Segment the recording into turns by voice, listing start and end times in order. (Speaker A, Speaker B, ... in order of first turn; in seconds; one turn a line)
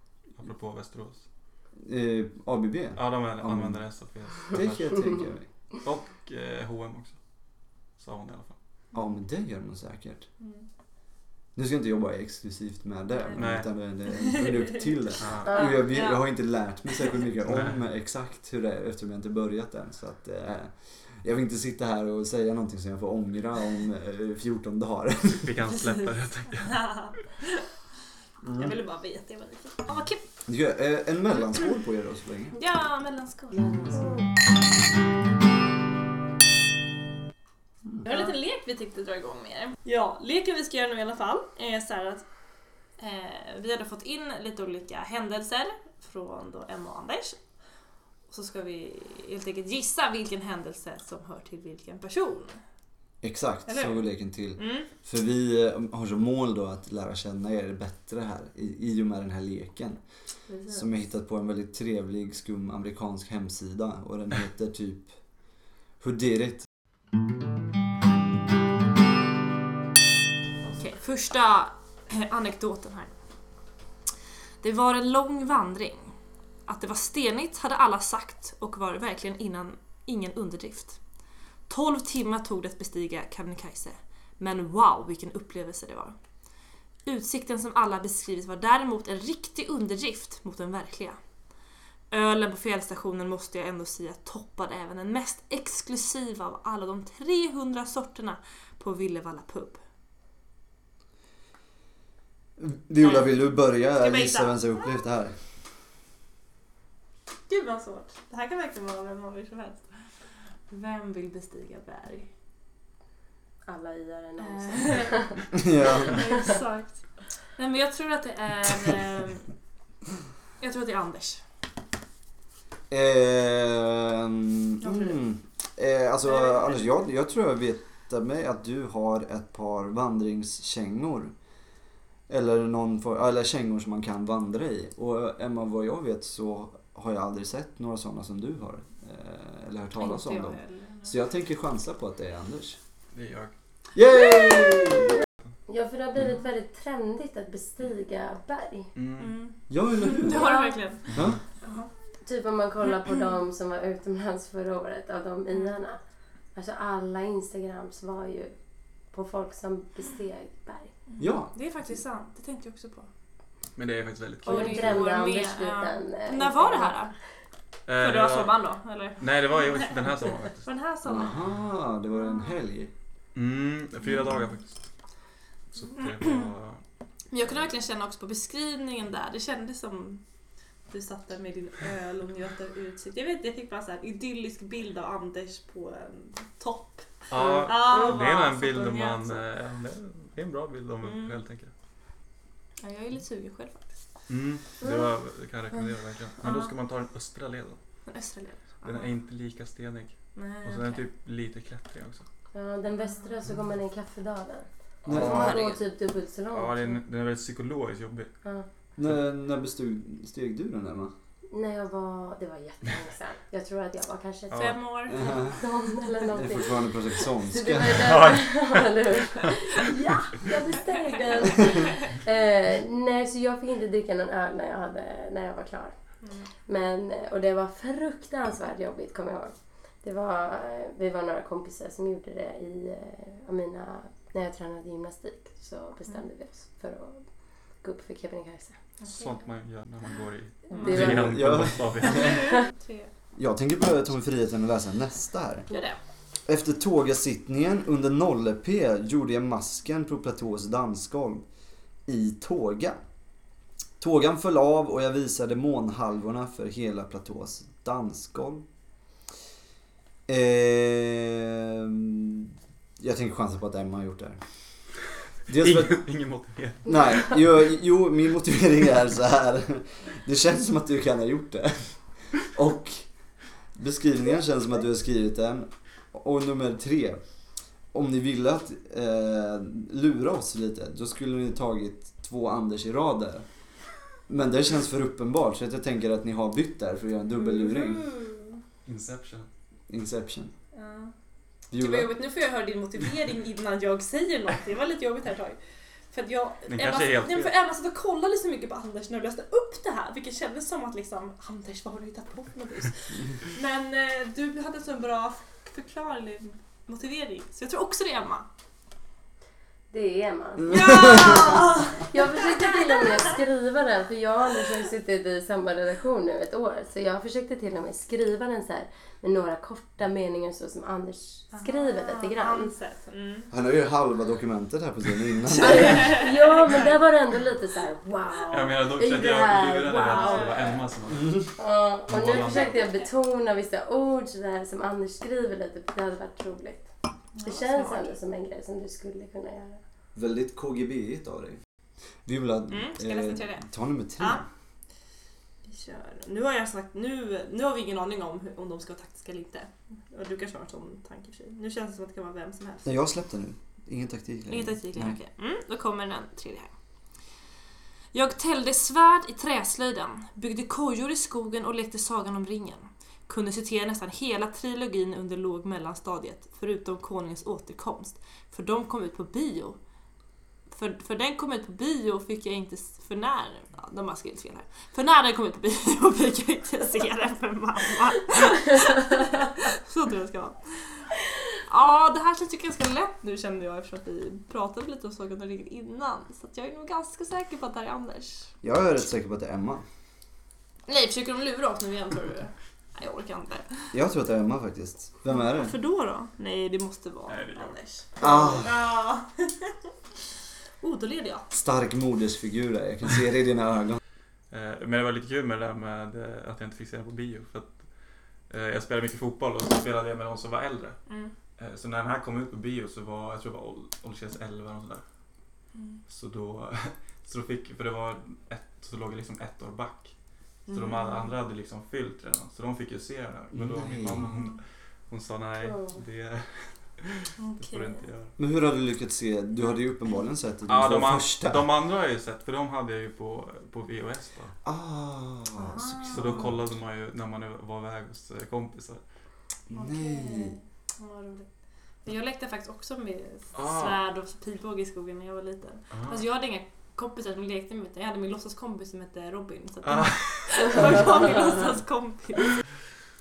Speaker A: 0.4-1.2
Speaker B: 1.8-3.8
Speaker A: 3.0-5.2
Speaker B: 4.5-5.5
Speaker A: 5.8-7.2
Speaker A: 8.0-8.6
Speaker B: 8.9-10.3
Speaker C: 10.4-10.6
Speaker B: 11.6-25.6
Speaker C: 13.1-13.4
Speaker A: 13.3-13.7
Speaker C: 14.1-14.7
Speaker A: 15.2-15.6
Speaker D: 15.4-15.8
Speaker C: 15.5-17.2
Speaker A: 17.4-17.8
Speaker A: 25.4-27.2
Speaker C: 26.5-27.7
Speaker B: 28.4-28.7
Speaker C: 28.5-30.2
Speaker B: 30.5-32.6
Speaker C: 32.5-34.2
Speaker D: 33.5-34.3
Speaker C: 38.0-42.2
Speaker C: 43.0-47.4
Speaker C: 48.3-52.6
Speaker B: 53.2-60.0
Speaker C: 53.6-54.9
Speaker C: 60.5-60.9
Speaker B: 60.7-65.1
Speaker B: 66.0-66.7
Speaker C: 70.7-73.1
Speaker C: 74.6-76.1
Speaker C: 76.7-81.0
Speaker C: 81.7-86.1
Speaker C: 87.0-91.2
Speaker C: 92.1-99.8
Speaker B: 102.6-105.4
Speaker C: 103.0-105.1
Speaker C: 107.5-110.0
Speaker C: 110.7-112.3
Speaker D: 113.7-115.5
Speaker C: 114.4-115.2
Speaker B: 115.5-116.2
Speaker C: 116.0-119.5
Speaker C: 120.6-121.4
Speaker B: 122.9-131.3
Speaker C: 124.8-125.2
Speaker C: 126.2-126.8
Speaker B: 132.3-142.8
Speaker C: 140.0-141.2
Speaker A: 143.1-143.5
Speaker B: 143.9-145.2
Speaker D: 145.7-148.9
Speaker A: 148.9-149.4
Speaker C: 149.2-151.9
Speaker B: 149.7-150.5
Speaker D: 150.3-150.9
Speaker B: 151.1-151.4
Speaker D: 152.2-156.0
Speaker D: 156.5-158.5
Speaker D: 159.1-160.9
Speaker C: 161.1-163.1
Speaker B: 161.2-161.5
Speaker A: 163.8-165.1
Speaker D: 164.4-167.1
Speaker C: 164.5-167.1
Speaker A: 167.9-168.6
Speaker C: 168.0-171.4
Speaker A: 169.2-170.7
Speaker B: 171.1-172.9
Speaker C: 172.2-172.6
Speaker A: 173.3-174.8
Speaker A: 175.7-176.8
Speaker C: 176.0-176.5
Speaker C: 177.3-180.2
Speaker C: 180.9-189.4
Speaker A: 187.3-191.7
Speaker D: 187.4-188.2
Speaker C: 191.0-191.4
Speaker C: 192.8-194.0
Speaker A: 194.3-197.8
Speaker D: 194.8-195.1
Speaker C: 196.4-196.7
Speaker C: 198.1-199.1
Speaker A: 198.8-202.2
Speaker C: 200.3-201.0
Speaker D: 202.5-207.0
Speaker A: 205.1-205.6
Speaker B: 205.1-205.5
Speaker C: 205.2-205.8
Speaker A: 206.5-208.3
Speaker B: 209.0-211.1
Speaker D: 211.5-225.9
Speaker A: 214.5-214.8
Speaker C: 214.6-215.2
Speaker B: 215.1-215.6
Speaker B: 216.3-218.2
Speaker A: 218.0-218.9
Speaker C: 226.2-226.5
Speaker D: 226.7-237.3
Speaker D: 237.8-238.8
Speaker C: 239.0-239.4
Speaker A: 239.1-242.5
Speaker C: 240.7-241.3
Speaker B: 240.9-242.1
Speaker C: 242.0-243.1
Speaker B: 243.3-245.7
Speaker C: 245.7-246.0
Speaker B: 246.5-251.4
Speaker B: 252.1-253.0
Speaker B: 254.0-258.6
Speaker B: 260.3-264.4
Speaker B: 265.5-266.0
Speaker A: 265.6-267.0
Speaker B: 266.9-273.1
Speaker B: 273.8-277.2
Speaker B: 277.9-283.5
Speaker B: 284.3-288.1
Speaker C: 287.4-288.6
Speaker A: 288.9-289.5
Speaker B: 289.9-290.5
Speaker C: 290.7-291.1
Speaker B: 291.7-292.1
Speaker C: 291.7-295.6
Speaker C: 296.1-308.5
Speaker A: 296.7-297.6
Speaker D: 309.9-311.6
Speaker B: 310.6-311.6
Speaker C: 310.7-313.2
Speaker D: 312.1-322.7
Speaker C: 321.5-323.5
Speaker B: 323.5-326.2
Speaker D: 325.6-330.6
Speaker C: 325.6-327.0
Speaker A: 328.5-331.6
Speaker C: 329.9-330.9
Speaker D: 331.6-336.9
Speaker A: 332.1-332.8
Speaker C: 332.2-333.1
Speaker C: 337.4-338.1
Speaker D: 337.4-339.8
Speaker B: 340.1-341.6
Speaker B: 342.2-344.5
Speaker C: 342.7-344.4
Speaker C: 345.6-352.9
Speaker B: 352.9-355.2
Speaker C: 354.5-356.7
Speaker C: 358.1-369.8
Speaker C: 370.7-388.5
Speaker B: 388.6-389.9
Speaker C: 390.9-393.9
Speaker B: 393.9-395.8
Speaker C: 395.3-399.9
Speaker A: 397.3-397.8
Speaker B: 398.2-398.8
Speaker C: 400.8-401.5
Speaker B: 401.5-404.0
Speaker A: 404.5-407.8
Speaker A: 408.5-411.0
Speaker C: 411.1-411.3
Speaker A: 411.6-415.0
Speaker C: 415.8-416.0
Speaker A: 416.1-420.1
Speaker C: 420.7-421.4
Speaker A: 420.7-428.3
Speaker B: 423.5-424.3
Speaker D: 425.6-426.0
Speaker C: 427.4-428.0
Speaker B: 428.4-431.7
Speaker A: 430.7-434.5
Speaker B: 434.6-436.4
Speaker C: 435.6-436.5
Speaker A: 436.1-439.0
Speaker B: 439.7-440.6
Speaker C: 439.7-441.5
Speaker C: 442.0-452.6
Speaker A: 443.6-444.0
Speaker A: 445.9-446.2
Speaker A: 449.9-450.9